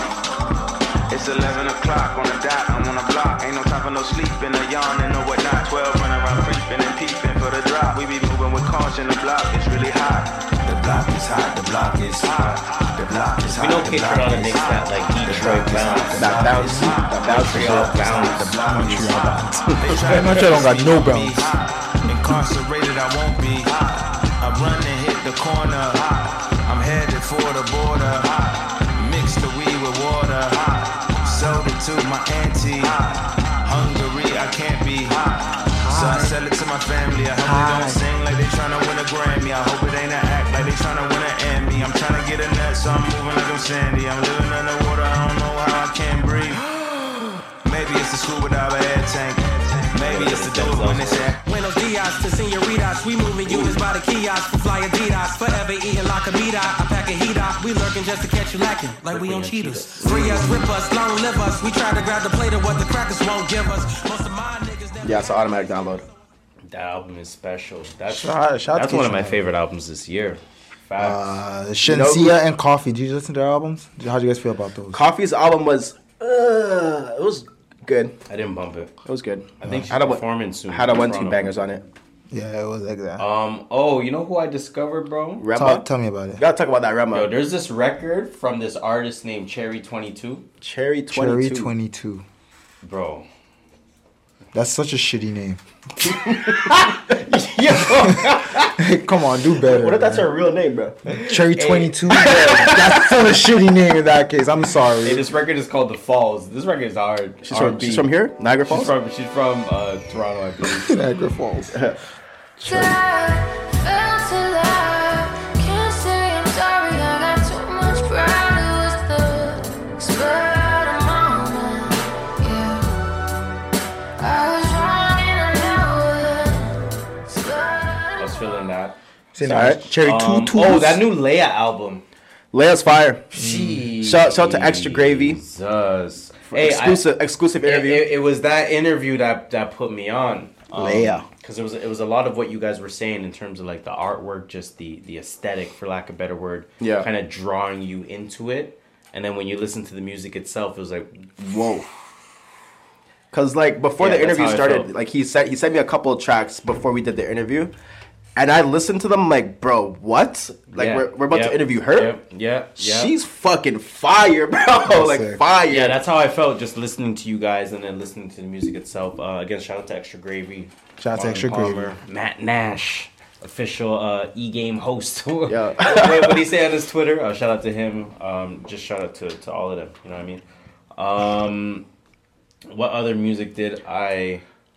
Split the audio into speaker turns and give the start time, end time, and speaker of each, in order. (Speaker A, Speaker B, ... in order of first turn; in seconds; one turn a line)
Speaker A: 1.1-46.7
Speaker B: 13.5-16.4
Speaker C: 16.1-17.9
Speaker D: 16.6-16.9
Speaker B: 17.2-18.6
Speaker D: 18.2-21.4
Speaker D: 35.8-36.4
Speaker D: 37.4-38.0
Speaker A: 47.6-51.4
Speaker B: 49.9-51.3
Speaker E: 51.4-65.5
Speaker B: 59.1-60.0
Speaker C: 60.0-60.7
Speaker C: 65.0-66.0
Speaker B: 66.7-71.4
Speaker D: 68.1-69.5
Speaker D: 71.0-75.0
Speaker C: 71.8-72.4
Speaker C: 74.9-78.1
Speaker B: 78.3-78.9
Speaker C: 79.0-81.8
Speaker B: 79.6-81.5
Speaker D: 82.3-83.2
Speaker B: 83.2-85.4
Speaker C: 85.4-85.8
Speaker D: 85.5-86.4
Speaker C: 86.4-87.3
Speaker B: 87.1-90.4
Speaker C: 90.6-91.7
Speaker D: 91.1-92.2
Speaker B: 92.8-93.2
Speaker D: 94.5-95.6
Speaker C: 96.2-96.5
Speaker B: 96.4-98.8
Speaker D: 98.8-100.3
Speaker C: 99.7-101.0
Speaker D: 101.1-105.3
Speaker B: 101.1-102.0
Speaker C: 102.1-103.2
Speaker B: 105.0-108.1
Speaker C: 107.4-108.9
Speaker B: 108.7-111.0
Speaker D: 110.6-111.8
Speaker C: 111.7-112.0
Speaker C: 112.6-113.0
Speaker E: 112.7-122.9
Speaker E: 124.2-126.7
Speaker E: 127.3-128.2
Speaker B: 128.2-129.0
Speaker D: 129.3-131.0
Speaker C: 129.4-129.8
Speaker B: 129.5-132.0
Speaker C: 132.5-133.3
Speaker B: 133.3-137.1
Speaker D: 133.3-133.9
Speaker C: 134.0-135.4
Speaker C: 136.5-138.1
Speaker B: 137.6-151.3
Speaker D: 140.7-141.2
Speaker C: 146.8-147.1
Speaker C: 151.4-151.9
Speaker C: 153.3-157.7
Speaker B: 154.0-154.9
Speaker C: 158.3-162.1
Speaker B: 160.7-163.1
Speaker C: 162.8-166.0
Speaker D: 164.8-165.4
Speaker B: 165.7-180.4
Speaker D: 171.0-171.9
Speaker C: 175.5-176.4
Speaker B: 180.9-181.8
Speaker B: 182.7-184.4